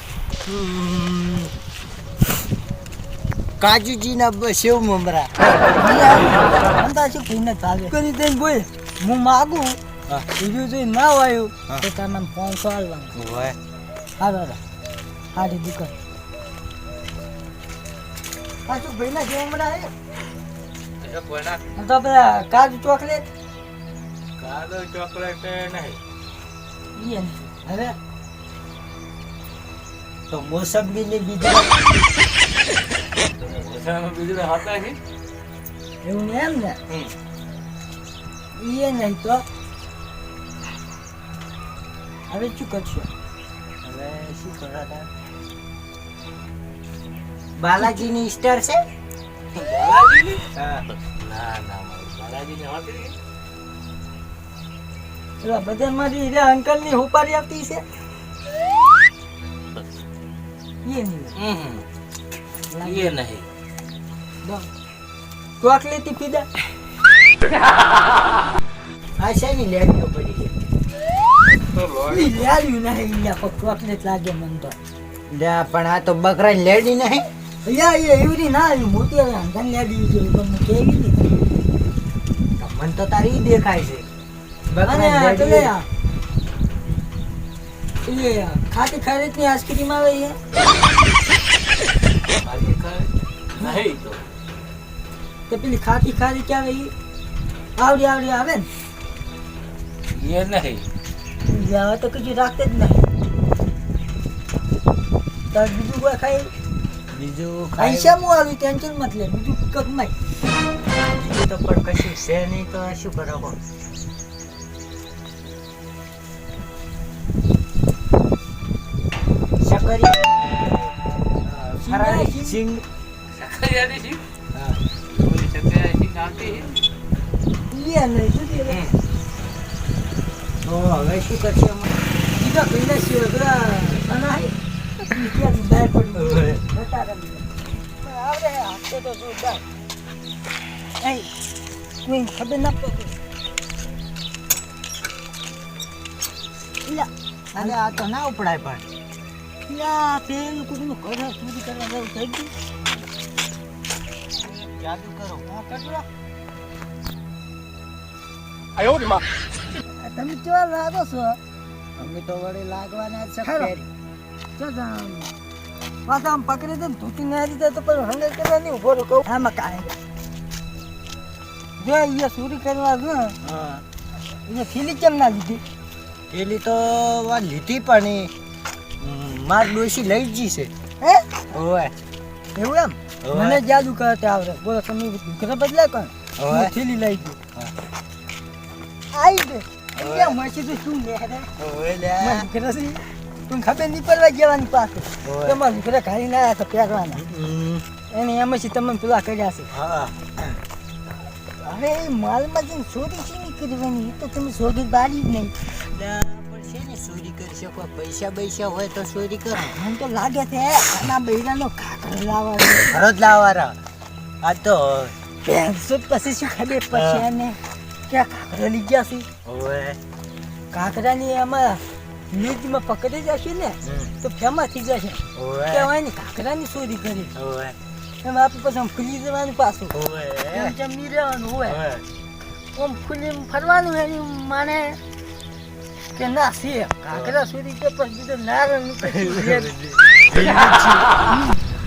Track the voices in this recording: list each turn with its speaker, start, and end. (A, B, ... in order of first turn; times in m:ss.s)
0:00.4-0:01.5 A
0:03.6-0:05.4 A
0:05.7-0:09.8 B
0:10.4-0:13.1 B
0:13.1-0:13.6 A
0:14.2-0:14.6 B
0:15.3-0:15.9 B
0:18.6-0:19.9 B
0:21.1-0:21.6 A
0:21.7-0:23.2 B
0:24.4-0:26.0 A
0:27.0-0:27.9 B
0:30.3-0:31.8 A
0:33.5-0:35.0 C
0:36.0-0:36.8 B
0:38.6-0:39.4 B
0:42.3-0:43.1 B
0:43.8-0:45.1 A
0:47.6-0:48.8 A
0:47.8-0:48.1 B
0:49.5-0:50.4 C
0:50.5-0:50.8 A
0:51.2-0:53.1 C
0:55.4-0:57.8 B
1:00.8-1:01.4 B
1:01.4-1:01.8 C
1:02.7-1:03.2 B
1:02.8-1:03.4 C
1:04.4-1:04.7 B
1:05.6-1:06.5 B
1:09.2-1:10.5 A
1:11.8-1:12.2 C
1:12.0-1:14.8 B
1:15.3-1:17.3 A
1:17.6-1:21.3 B
1:22.6-1:24.1 A
1:24.7-1:25.7 A
1:24.8-1:25.8 B
1:28.0-1:30.4 B
1:32.5-1:33.0 C
1:32.5-1:33.0 A
1:33.6-1:34.2 C
1:35.5-1:36.9 B
1:37.8-1:38.7 B
1:40.1-1:40.8 C
1:41.4-1:43.0 B
1:45.5-1:46.5 B
1:47.1-1:48.2 A
1:47.8-1:50.1 B
1:51.0-1:53.6 A
1:59.6-2:00.6 A
2:01.4-2:02.8 A
2:01.8-2:02.6 B
2:03.3-2:04.2 C
2:04.5-2:04.8 A
2:05.2-2:06.7 C
2:07.7-2:08.8 B
2:08.7-2:09.0 A
2:10.6-2:11.9 A
2:12.3-2:14.5 B
2:15.1-2:19.6 B
2:16.1-2:16.6 A
2:21.0-2:21.3 B
2:22.0-2:23.2 B
2:26.8-2:28.0 B
2:27.5-2:28.9 A
2:29.7-2:32.5 B
2:34.4-2:35.5 A
2:35.5-2:36.0 B
2:39.8-2:41.4 B
2:42.0-2:43.9 A
2:43.4-2:43.7 B
2:44.6-2:45.3 B
2:46.0-2:50.0 B
2:51.8-2:53.4 B
2:53.4-2:53.8 A
2:54.5-2:55.6 B
2:56.3-2:58.3 A
2:59.0-3:00.7 A
3:01.0-3:01.4 B
3:01.5-3:01.9 A
3:02.5-3:07.4 B
3:03.2-3:03.6 A
3:06.4-3:06.7 A
3:09.1-3:11.5 B
3:10.0-3:10.4 A
3:11.6-3:12.5 A
3:12.2-3:17.2 B
3:15.2-3:15.6 A
3:17.1-3:17.8 A
3:18.1-3:19.7 B
3:19.7-3:20.4 A
3:21.6-3:25.5 B
3:25.8-3:29.8 A
3:29.6-3:33.0 B
3:32.8-3:33.8 A
3:34.4-3:35.1 A
3:35.4-3:39.3 B
3:36.9-3:37.2 A
3:39.4-3:40.0 A
3:40.7-3:41.8 B
3:42.3-3:47.3 B
3:43.8-3:44.1 A
3:45.4-3:45.9 A
3:47.4-3:47.8 A
3:48.2-3:49.9 B
3:49.9-3:50.7 A
3:50.5-3:51.8 B
3:51.6-3:52.0 A
3:52.7-3:55.0 B
3:56.1-3:59.7 B
3:57.1-3:57.4 A
3:59.0-4:01.2 A